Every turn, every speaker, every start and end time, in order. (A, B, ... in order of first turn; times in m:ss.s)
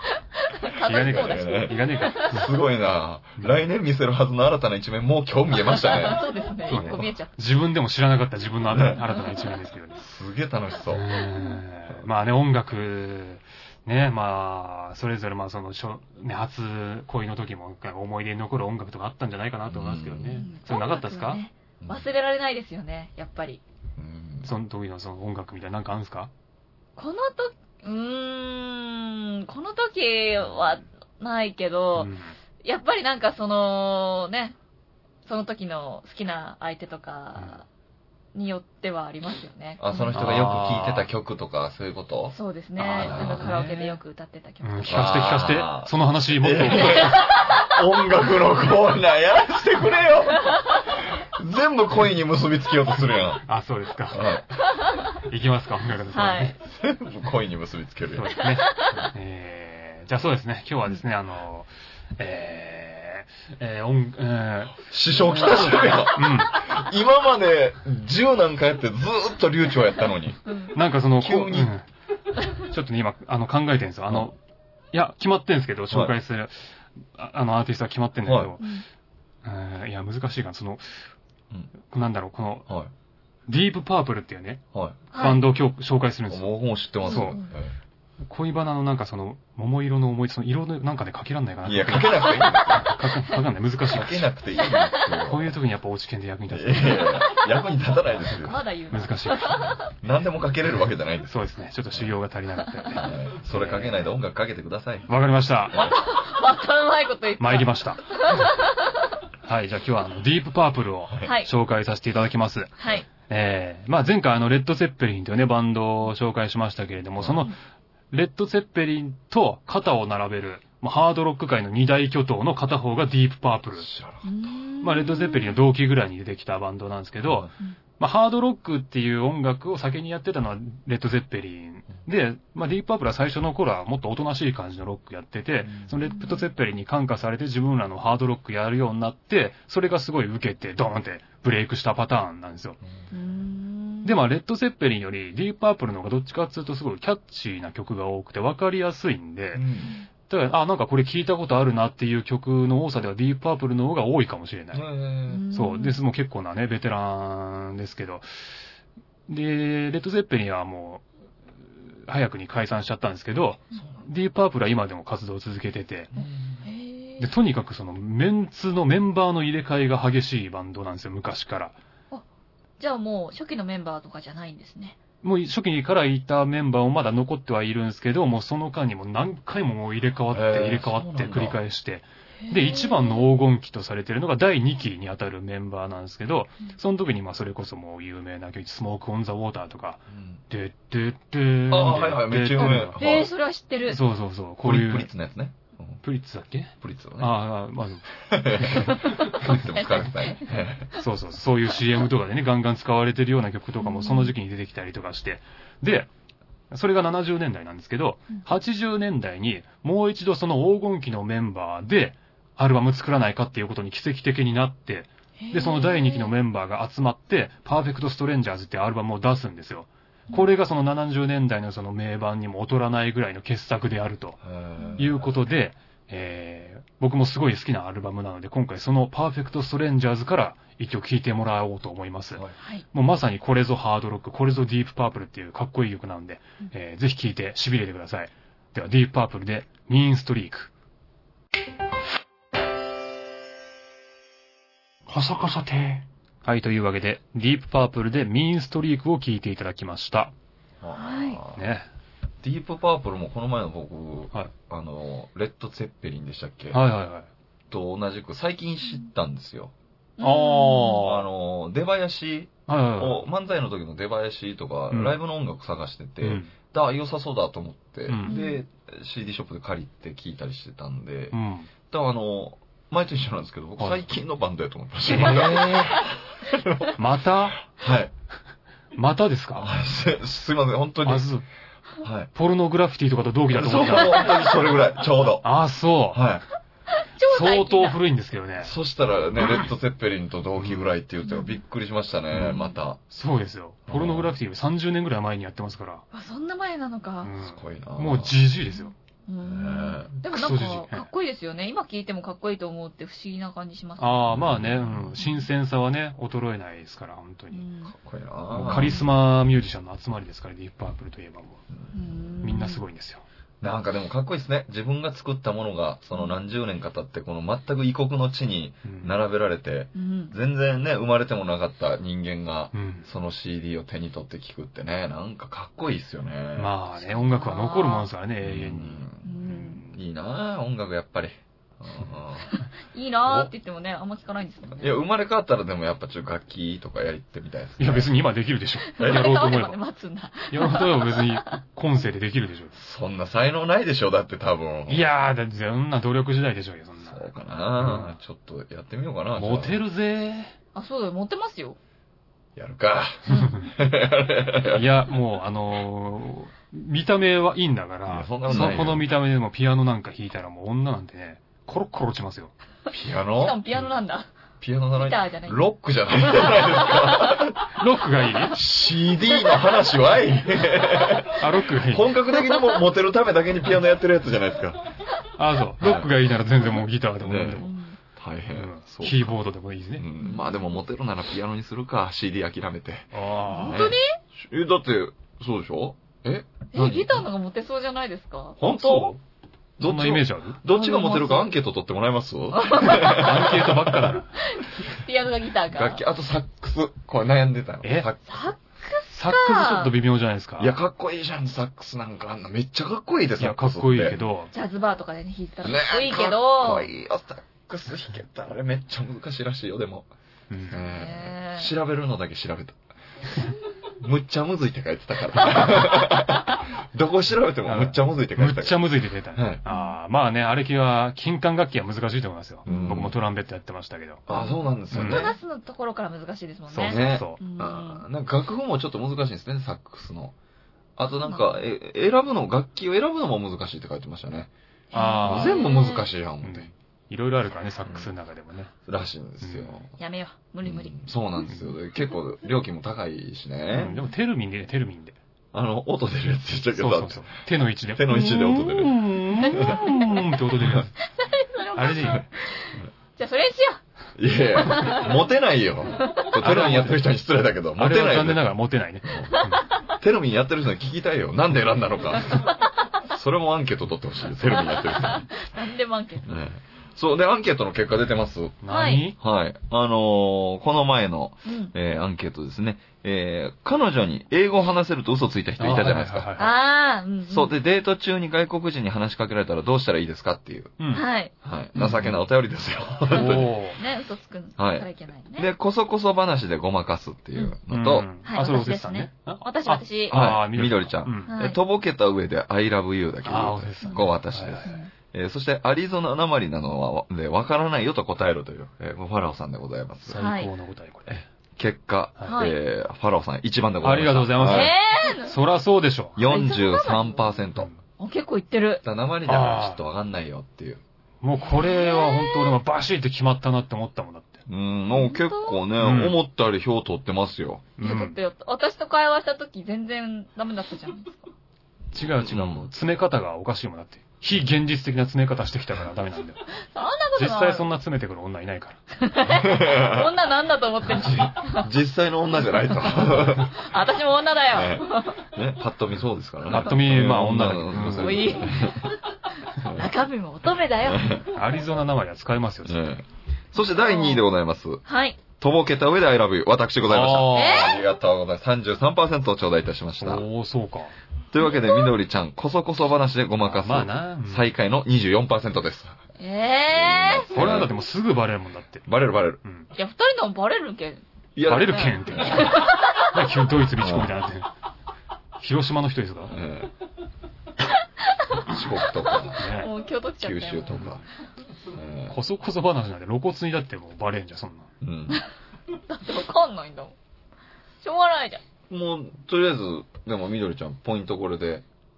0:00.4-0:02.4 A
0:00.8-0:02.5 B
0:00.9-0:07.1 C
0:05.6-0:07.4 A
0:06.7-0:10.0 B
0:08.7-0:09.0 C
0:10.0-0:11.0 C
0:10.9-0:21.4 B
0:11.4-0:11.6 A
0:19.7-0:20.4 C
0:20.2-0:23.6 A
0:21.8-0:22.1 C
0:24.0-0:24.5 C
0:24.4-0:26.3 B
0:27.0-0:32.1 A
0:32.0-0:32.3 B
0:32.6-0:34.6 A
0:35.3-0:37.6 A
0:38.3-0:40.3 A
0:39.8-0:43.6 C
0:40.1-0:41.1 B
0:42.3-0:45.3 A
0:42.9-0:44.0 B
0:44.6-0:47.2 B
0:44.9-0:50.6 C
0:47.0-0:47.8 A
0:50.4-0:50.8 A
0:51.3-0:53.4 C
0:53.5-0:54.3 B
0:54.1-0:54.5 C
0:55.2-0:56.6 B
0:56.1-0:56.5 A
0:56.6-0:58.4 C
0:58.1-1:06.6 B
0:58.4-0:59.0 A
1:04.9-1:10.4 C
1:10.5-1:10.8 A
1:10.7-1:11.8 B
1:11.2-1:11.7 C
1:12.6-1:14.4 B
1:14.9-1:18.6 B
1:18.2-1:18.5 C
1:18.6-1:18.8 A
1:19.4-1:21.1 B
1:21.9-1:22.7 B
1:23.5-1:24.6 B
1:24.7-1:25.0 C
1:25.1-1:25.4 A
1:25.1-1:26.5 B
1:26.3-1:27.8 C
1:27.0-1:27.5 A
1:27.1-1:27.4 B
1:28.2-1:34.3 B
1:31.6-1:33.0 C
1:33.9-1:35.6 C
1:34.6-1:35.1 A
1:35.3-1:37.1 B
1:36.5-1:38.6 C
1:36.9-1:37.6 A
1:38.3-1:39.9 A
1:38.9-1:39.8 B
1:39.9-1:41.4 C
1:41.3-1:44.1 B
1:42.9-1:45.1 C
1:45.1-1:45.9 B
1:45.8-1:49.1 A
1:47.4-1:48.0 B
1:49.4-1:52.7 B
1:51.2-1:51.5 A
1:52.8-1:53.0 A
1:53.2-1:57.5 B
1:58.1-2:03.9 B
2:03.8-2:04.6 C
2:04.2-2:05.6 A
2:04.8-2:22.8 B
2:07.2-2:07.5 C
2:15.7-2:16.0 C
2:16.0-2:16.4 A
2:23.1-2:24.2 A
2:24.0-2:29.7 B
2:29.5-2:30.0 C
2:30.3-2:34.9 B
2:34.7-2:35.4 C
2:35.3-2:36.0 A
2:35.5-2:38.3 B
2:39.3-2:41.0 B
2:42.0-2:46.1 B
2:43.8-2:44.0 C
2:46.1-2:46.6 C
2:46.1-2:47.3 A
2:47.2-2:51.8 B
2:52.8-2:55.0 A
2:55.2-3:13.0 B
3:00.3-3:01.6 C
3:02.4-3:03.3 A
3:10.1-3:10.4 C
3:11.7-3:13.3 C
3:12.6-3:14.0 A
3:13.9-3:15.1 B
3:14.6-3:16.0 C
3:16.0-3:20.0 B
3:16.8-3:17.3 C
3:18.2-3:20.9 C
3:19.0-3:20.4 A
3:21.0-3:26.1 B
3:23.8-3:24.3 A
3:26.7-3:44.4 B
3:35.4-3:36.3 A
3:44.4-3:45.4 C
3:44.8-3:45.0 A
3:45.0-4:00.7 B
3:52.6-3:52.9 A
4:05.1-4:10.3 B
4:10.8-4:11.7 C
4:11.0-4:11.4 A
4:11.5-4:11.9 B
4:12.4-4:16.8 C
4:16.7-4:17.3 B
4:17.7-4:19.7 C
4:20.2-4:21.1 A
4:20.2-4:21.2 B
4:21.0-4:31.4 C
4:22.7-4:23.2 B
4:24.9-4:25.2 B
4:26.2-4:26.5 B
4:28.1-4:28.4 B
4:28.2-4:28.6 A
4:31.3-4:31.7 B
4:31.9-4:37.0 C
4:35.0-4:36.1 B
4:37.0-4:37.6 B
4:37.6-4:38.1 C
4:39.0-4:39.7 B
4:39.6-4:41.3 C
4:41.0-4:41.4 B
4:42.0-4:42.3 C
4:42.3-4:44.4 B
4:43.5-4:45.4 C
4:44.1-4:44.7 A
4:45.4-4:46.2 B
4:46.1-4:46.4 C
4:47.2-4:48.0 A
4:47.2-4:48.7 B
4:48.6-4:53.0 C
4:51.3-4:51.6 A
4:52.3-4:56.0 B
4:53.9-4:54.4 C
4:56.1-4:57.3 A
4:57.2-4:58.9 B
4:57.4-4:58.4 C
4:58.7-5:04.4 A
4:59.4-5:00.1 C
5:00.2-5:01.1 B
5:04.0-5:07.6 B
5:04.3-5:05.2 C
5:05.2-5:05.5 A
5:07.5-5:08.0 A
5:07.9-5:09.0 C
5:08.5-5:11.6 B
5:08.6-5:09.1 A
5:11.9-5:12.8 A
5:12.4-5:13.2 B
5:13.6-5:26.7 C
5:16.1-5:16.4 A
5:18.8-5:19.2 B
5:20.0-5:20.4 A
5:22.7-5:23.1 B
5:26.6-5:29.9 B
5:27.0-5:28.1 A
5:28.4-5:32.5 C
5:29.2-5:29.8 A
5:32.5-5:35.0 A
5:34.8-5:38.1 C
5:37.8-5:39.8 B
5:38.9-5:41.5 A
5:39.0-5:39.3 C
5:40.5-5:42.8 B
5:42.7-5:45.1 C
5:44.9-5:48.2 B
5:47.0-5:49.8 C
5:49.4-5:50.5 B
5:50.8-5:51.8 A
5:52.6-5:54.9 C
5:53.3-5:53.7 B
5:53.3-5:53.6 A
5:54.7-6:02.5 B
5:58.1-5:59.0 C
5:58.5-5:58.8 A
6:02.9-6:03.6 C
6:03.3-6:04.3 A
6:04.6-6:07.6 C
6:05.0-6:07.5 A
6:07.8-6:08.6 B
6:08.5-6:14.8 C
6:09.2-6:09.8 A
6:11.4-6:12.2 B
6:12.3-6:12.8 A
6:15.4-6:17.7 B
6:15.8-6:16.1 C
6:17.2-6:19.4 C
6:17.6-6:18.0 A
6:18.5-6:20.1 B
6:20.0-6:27.3 C
6:20.2-6:20.6 A
6:23.1-6:23.9 B
6:23.6-6:24.0 A
6:26.7-6:28.6 A
6:28.6-6:29.1 C
6:28.6-6:29.2 B
6:29.8-6:34.2 C
6:29.8-6:30.6 B
6:30.7-6:31.5 A
6:32.5-6:33.6 A
6:33.0-6:34.3 B
6:34.4-6:36.0 A
6:35.7-6:38.6 C
6:38.3-6:40.0 A
6:39.1-6:40.7 B
6:40.6-6:44.3 C
6:43.4-6:44.5 B
6:44.5-6:46.9 A
6:45.6-6:50.1 C
6:50.5-6:50.8 B
6:50.7-6:52.8 C
6:50.8-6:51.7 A
6:54.0-6:58.8 C
6:55.4-6:56.4 A
6:57.6-7:04.2 B
6:59.3-6:59.6 C
6:59.7-7:00.0 A
7:02.7-7:03.2 C
7:04.3-7:05.4 C
7:04.3-7:08.1 A
7:04.9-7:05.2 B
7:06.7-7:07.4 B
7:06.8-7:10.4 C
7:11.0-7:14.5 C
7:11.2-7:11.6 A
7:14.9-7:16.1 A
7:14.9-7:15.7 B
7:15.2-7:16.7 C
7:16.4-7:18.7 B
7:17.8-7:18.1 C
7:18.9-7:19.9 C
7:19.4-7:19.8 B
7:20.0-7:21.1 A
7:20.6-7:24.0 C
7:23.7-7:25.2 B
7:25.5-7:27.4 C
7:26.7-7:31.0 B
7:27.9-7:29.8 C
7:30.6-7:30.8 C
7:31.2-7:33.8 A
7:31.8-7:32.2 B
7:34.2-7:38.5 C
7:34.6-7:35.2 A
7:36.0-7:36.3 A
7:36.4-7:37.0 B
7:37.8-7:39.6 B
7:39.1-7:39.4 C
7:39.4-7:39.7 A
7:39.9-7:42.5 C
7:42.3-7:42.6 A
7:43.1-7:45.3 C
7:44.5-7:46.3 A
7:46.2-7:48.6 C
7:48.6-7:49.2 B
7:48.7-7:49.0 A
7:49.2-7:56.3 C
7:51.5-7:51.7 A
7:55.6-7:56.5 B
7:56.4-7:57.5 A
7:57.3-8:00.8 C
8:00.8-8:01.0 B
8:00.9-8:01.3 A
8:01.4-8:03.5 C
8:01.8-8:02.2 B
8:03.1-8:03.8 B
8:03.1-8:05.5 A
8:04.6-8:08.1 C
8:07.7-8:11.3 B
8:08.2-8:10.3 A
8:10.1-8:20.2 C
8:11.3-8:11.6 A
8:13.2-8:14.8 B
8:14.7-8:14.9 A
8:20.1-8:21.3 B
8:20.2-8:20.5 A
8:21.6-8:24.7 C
8:22.3-8:22.6 A
8:23.8-8:26.2 B
8:24.5-8:25.4 A
8:26.2-8:27.7 C
8:26.2-8:27.4 A
8:28.0-8:28.8 A
8:28.8-8:30.8 C
8:29.3-8:29.8 B
8:31.2-8:34.4 B
8:31.4-8:32.6 A
8:34.5-8:37.7 C
8:34.9-8:35.6 A
8:35.8-8:36.2 B
8:37.8-8:38.2 B
8:37.8-8:41.3 A
8:41.9-8:46.4 B
8:42.2-8:42.7 C
8:46.6-8:47.7 A
8:47.2-8:48.8 B
8:49.0-8:51.7 A
8:49.3-8:50.1 C
8:50.9-8:53.6 C
8:52.7-8:55.3 A
8:54.5-8:59.0 C
8:56.5-8:58.5 B
8:57.9-8:59.0 A
8:59.6-8:59.9 C
8:59.6-9:01.2 A
9:00.8-9:01.3 C
9:01.3-9:02.8 B
9:02.6-9:04.8 C
9:03.6-9:04.2 A
9:04.9-9:05.2 A
9:05.4-9:10.2 C
9:06.9-9:07.8 B
9:07.3-9:07.8 A
9:10.0-9:10.9 B
9:11.3-9:16.0 C
9:11.4-9:11.9 A
9:13.4-9:14.5 B
9:16.2-9:17.4 A
9:16.7-9:17.7 C
9:17.3-9:18.9 B
9:18.9-9:19.4 C
9:19.7-9:21.0 A
9:21.4-9:22.6 C
9:21.5-9:24.5 B
9:21.7-9:23.1 A
9:23.8-9:24.2 C
9:25.4-9:26.4 B
9:26.3-9:26.7 C
9:28.2-9:28.5 A
9:28.5-9:29.5 C
9:29.0-9:30.9 A
9:29.4-9:29.7 B
9:30.2-9:31.0 C
9:31.7-9:32.2 C
9:32.1-9:34.7 B
9:34.8-9:35.2 C
9:35.9-9:37.0 A
9:37.8-9:38.4 A
9:38.7-9:41.6 C